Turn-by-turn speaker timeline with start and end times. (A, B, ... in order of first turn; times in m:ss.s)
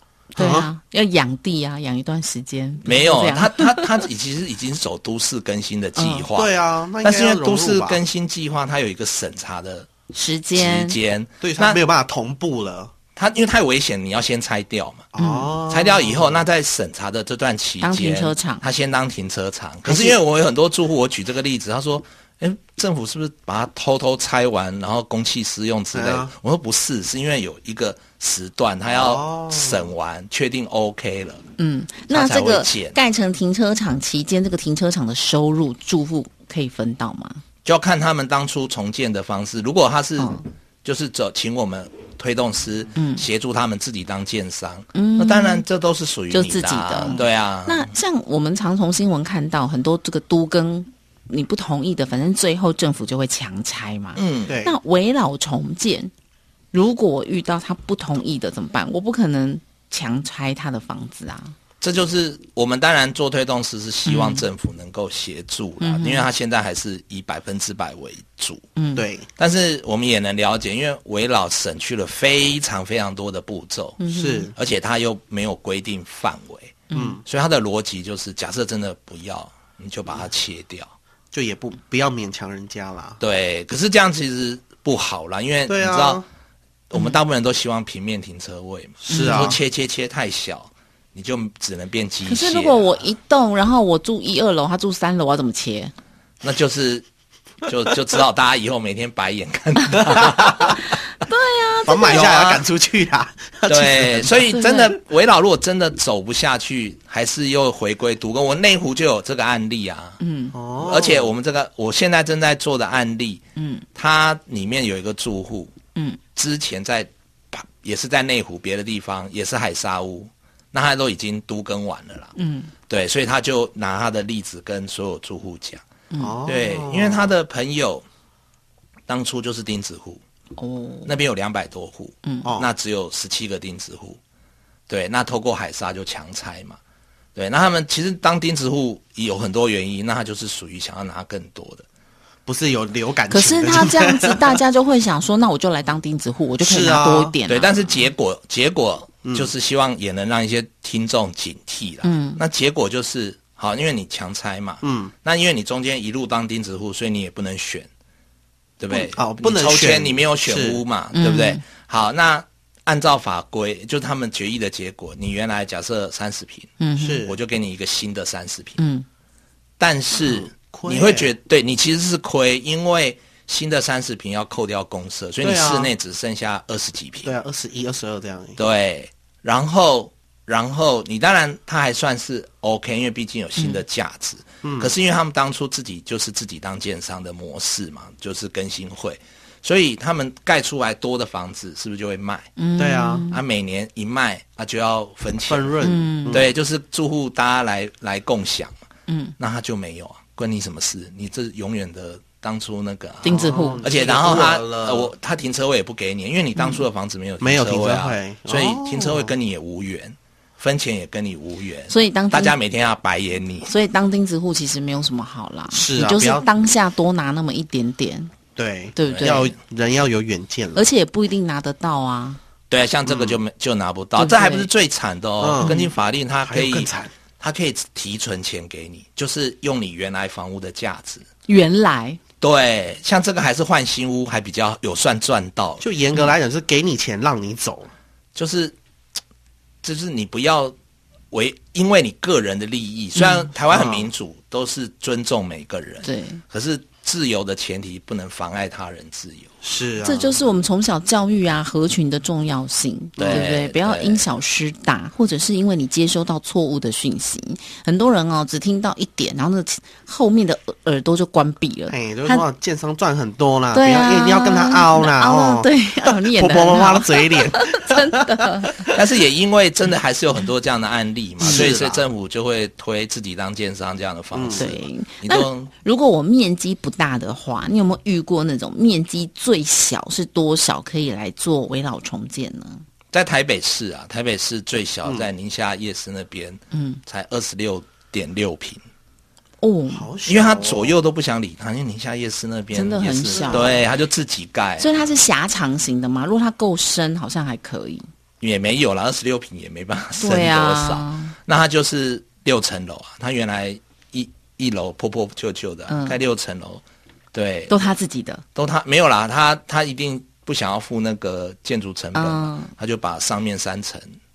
0:00.3-0:04.0 A
0:00.4-0:00.7 B
0:02.8-0:09.9 C
0:06.0-0:06.3 A
0:06.4-0:08.0 B
0:10.1-0:11.0 A
0:10.5-0:11.8 C
0:11.4-0:12.9 B
0:13.2-0:15.1 C
0:15.1-0:16.4 B
0:15.2-0:15.5 A
0:15.7-0:31.4 C
0:17.8-0:18.6 A
0:19.9-0:20.1 B
0:25.9-0:26.3 B
0:28.9-0:29.9 B
0:31.6-0:37.4 A
0:32.1-0:33.0 C
0:37.6-0:47.9 C
0:40.2-0:40.4 A
0:42.9-0:43.2 A
0:44.9-0:45.6 A
0:46.3-0:56.1 A
0:54.1-0:54.6 C
0:54.5-0:54.7 B
0:56.7-1:01.5 A
1:01.8-1:08.6 C
1:04.0-1:04.4 A
1:05.8-1:06.3 A
1:08.8-1:09.1 A
1:09.0-1:09.3 B
1:09.4-1:14.0 C
1:14.0-1:14.5 A
1:14.1-1:14.5 B
1:14.5-1:20.9 C
1:16.9-1:17.2 A
1:16.9-1:17.2 B
1:21.3-1:23.2 B
1:23.2-1:26.2 C
1:25.7-1:26.2 B
1:26.9-1:33.0 C
1:29.0-1:29.6 B
1:29.1-1:29.5 A
1:32.2-1:35.9 A
1:36.4-1:37.0 C
1:37.6-1:40.9 C
1:40.1-1:40.6 B
1:40.7-1:42.4 A
1:41.8-1:44.4 B
1:42.1-1:42.6 C
1:43.7-1:50.2 C
1:44.5-1:44.9 A
1:50.2-1:50.6 A
1:50.5-1:51.3 B
1:50.8-1:53.4 C
1:53.6-1:53.8 A
1:53.9-1:55.7 C
1:56.4-2:02.3 C
2:02.3-2:02.7 A
2:02.9-2:05.8 C
2:06.1-2:06.4 A
2:06.2-2:07.3 B
2:06.4-2:08.0 C
2:09.1-2:10.2 C
2:10.6-2:11.1 A
2:11.0-2:14.2 C
2:12.2-2:12.5 A
2:12.4-2:12.7 B
2:14.9-2:16.8 C
2:17.3-2:21.8 C
2:22.4-2:24.6 B
2:23.3-2:28.0 A
2:26.6-2:27.3 B
2:27.5-2:37.9 C
2:29.2-2:29.5 B
2:32.0-2:32.4 A
2:34.8-2:35.1 B
2:38.8-2:46.7 C
2:39.1-2:40.8 B
2:41.1-2:41.6 A
2:46.8-2:47.3 A
2:47.0-2:47.4 B
2:47.2-2:48.8 C
2:48.8-2:49.0 A
2:49.8-2:57.3 C
2:50.2-2:51.3 B
2:55.4-2:55.9 B
2:57.2-2:58.6 B
2:58.6-3:12.5 C
3:03.6-3:03.8 A
3:04.6-3:04.9 B
3:12.6-3:13.4 A
3:12.8-3:13.2 B
3:13.3-3:15.7 C
3:15.5-3:16.5 B
3:15.8-3:16.4 A
3:16.3-3:18.7 C
3:19.1-3:19.3 A
3:19.4-3:33.7 C
3:23.2-3:23.8 A
3:23.2-3:25.1 B
3:26.6-3:26.8 A
3:27.4-3:29.3 B
3:31.9-3:32.6 A
3:33.6-3:38.3 A
3:35.7-3:36.4 B
3:38.6-3:40.9 B
3:39.0-3:39.5 A
3:39.1-3:39.4 C
3:40.7-3:42.4 A
3:42.7-3:51.2 C
3:43.0-3:43.4 B
3:44.2-3:44.7 A
3:45.4-3:45.9 B
3:45.6-3:45.9 A
3:46.4-3:47.1 B
3:51.5-3:52.2 A
3:52.4-3:55.8 C
3:55.8-3:57.9 B
3:58.3-3:58.7 C
3:59.8-4:00.7 C
4:01.3-4:09.5 C
4:03.2-4:03.5 A
4:03.7-4:04.1 B
4:06.0-4:06.4 A
4:09.6-4:10.4 B
4:10.0-4:22.4 A
4:13.2-4:13.4 B
4:13.2-4:14.2 C
4:21.9-4:29.0 B
4:23.7-4:28.9 A
4:28.9-4:35.7 C
4:31.4-4:32.0 B
4:31.4-4:31.7 A
4:34.3-4:34.7 B
4:34.6-4:42.8 A
4:43.1-4:48.8 C
4:46.7-4:47.0 A
4:49.6-4:50.1 A
4:49.9-4:51.0 B
4:50.2-4:54.9 C
4:52.7-4:53.8 A
4:53.3-4:53.7 B
4:54.8-4:58.0 A
4:58.4-5:06.8 C
5:00.2-5:01.3 A
5:05.9-5:06.2 A
5:07.3-5:07.7 C
5:07.7-5:08.4 A
5:08.5-5:14.2 C
5:12.1-5:12.7 A